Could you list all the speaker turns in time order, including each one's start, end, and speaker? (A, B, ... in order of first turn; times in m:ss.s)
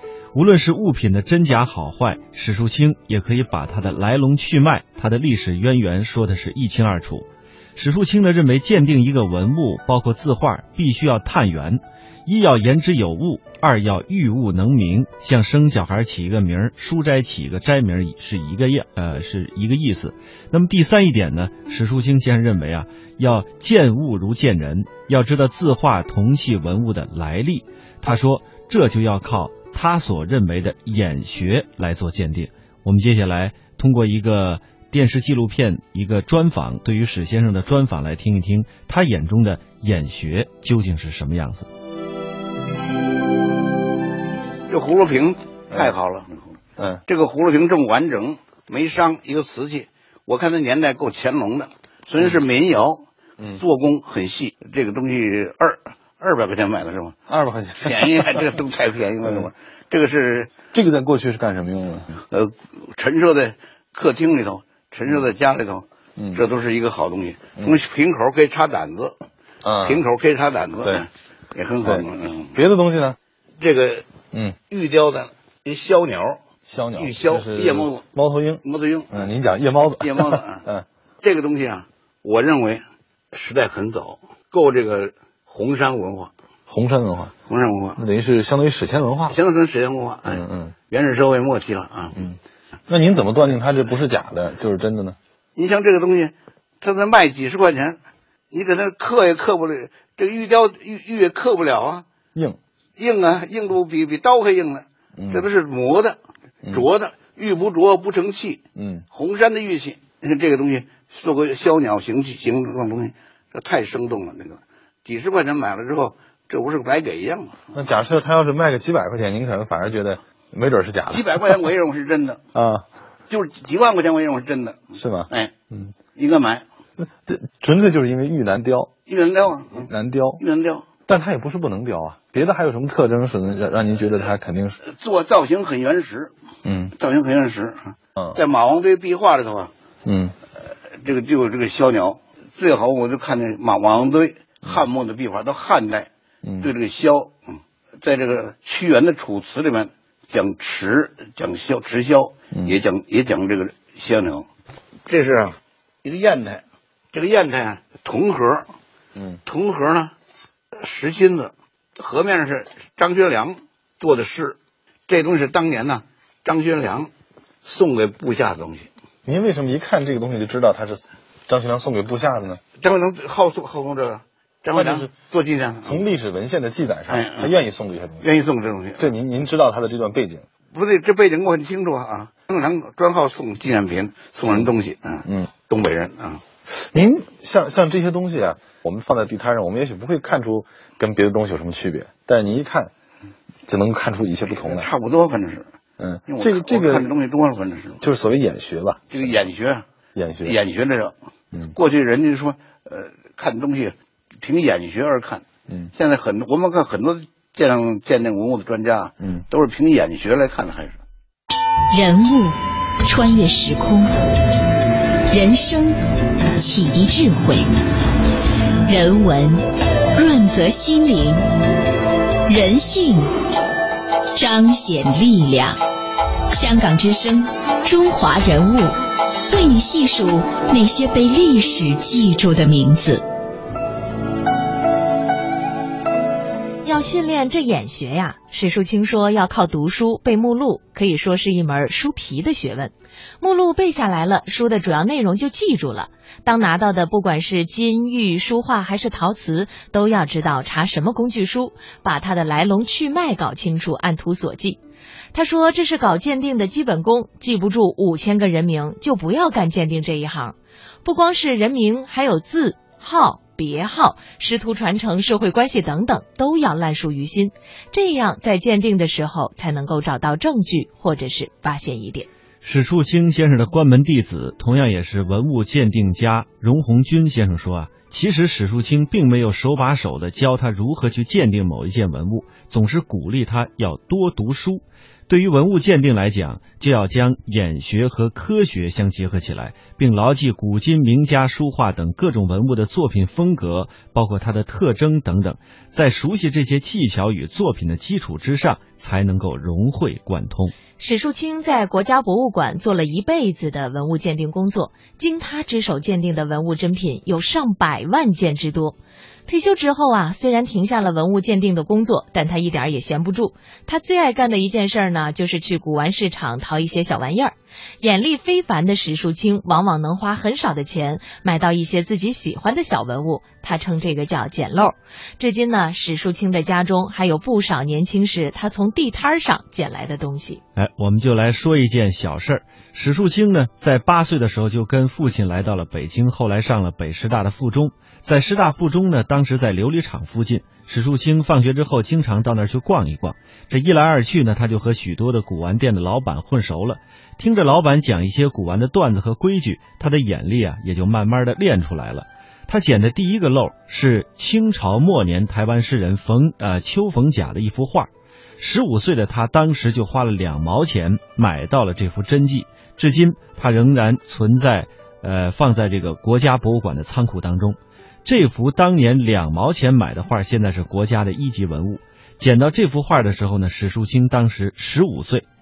0:00.3-0:41.7 A
0:44.7-0:46.4 B
0:46.8-0:47.0 C
0:47.1-0:53.0 B
0:53.6-0:57.2 B
0:57.3-0:58.6 C
0:57.8-1:00.5 B
0:59.2-0:59.5 C
1:00.7-1:02.1 C
1:02.2-1:09.2 B
1:06.2-1:06.4 C
1:09.6-1:10.0 C
1:09.8-1:12.6 B
1:11.8-1:13.2 C
1:13.6-1:14.0 B
1:14.3-1:14.6 C
1:14.7-1:16.4 B
1:16.6-1:20.8 C
1:17.0-1:18.0 B
1:18.6-1:19.1 B
1:20.0-1:20.6 B
1:21.2-1:26.3 B
1:26.7-1:27.3 C
1:27.5-1:28.0 B
1:28.0-1:29.4 C
1:29.3-1:32.2 B
1:30.2-1:30.7 C
1:32.2-1:35.2 C
1:35.6-1:38.0 B
1:38.5-1:42.0 B
1:43.0-1:46.2 B
1:45.2-1:45.5 C
1:46.7-1:57.6 B
1:48.8-1:49.0 C
1:57.7-2:01.6 C
2:01.1-2:02.4 B
2:02.5-2:02.9 C
2:03.3-2:05.5 B
2:04.9-2:05.9 C
2:06.1-2:06.6 B
2:07.0-2:08.9 C
2:09.1-2:10.8 B
2:09.8-2:10.4 C
2:11.1-2:14.8 C
2:14.8-2:16.3 B
2:16.6-2:16.9 C
2:16.9-2:19.7 B
2:20.0-2:20.3 C
2:21.0-2:26.1 B
2:26.4-2:26.7 C
2:26.6-2:27.4 B
2:28.0-2:34.5 B
2:32.5-2:32.8 C
2:35.1-2:38.7 B
2:39.4-2:40.1 B
2:40.8-2:44.6 B
2:45.1-2:47.1 B
2:47.6-2:48.9 B
2:49.2-2:52.6 C
2:52.8-2:56.0 B
2:54.7-2:55.1 C
2:55.8-2:58.3 C
2:57.1-2:57.5 B
2:58.2-2:59.0 B
2:59.0-3:00.4 C
3:00.7-3:06.4 B
3:05.2-3:05.5 C
3:06.7-3:12.9 C
3:13.7-3:14.9 C
3:14.5-3:15.7 B
3:16.0-3:17.1 C
3:16.3-3:18.0 B
3:18.0-3:19.3 C
3:19.1-3:19.8 B
3:20.1-3:20.6 C
3:20.4-3:21.1 B
3:21.7-3:25.4 B
3:25.9-3:31.0 B
3:31.9-3:34.1 D
3:35.3-3:36.0 D
3:36.6-3:37.7 D
3:38.9-3:39.6 D
3:40.2-3:41.4 D
3:42.5-3:43.3 D
3:44.3-3:45.8 D
3:46.5-3:48.9 D
3:49.5-3:53.2 D
3:56.8-4:14.8 E
4:15.3-4:32.3 E
4:32.6-5:00.7 A
5:01.0-5:30.6 E
5:30.8-6:15.4 A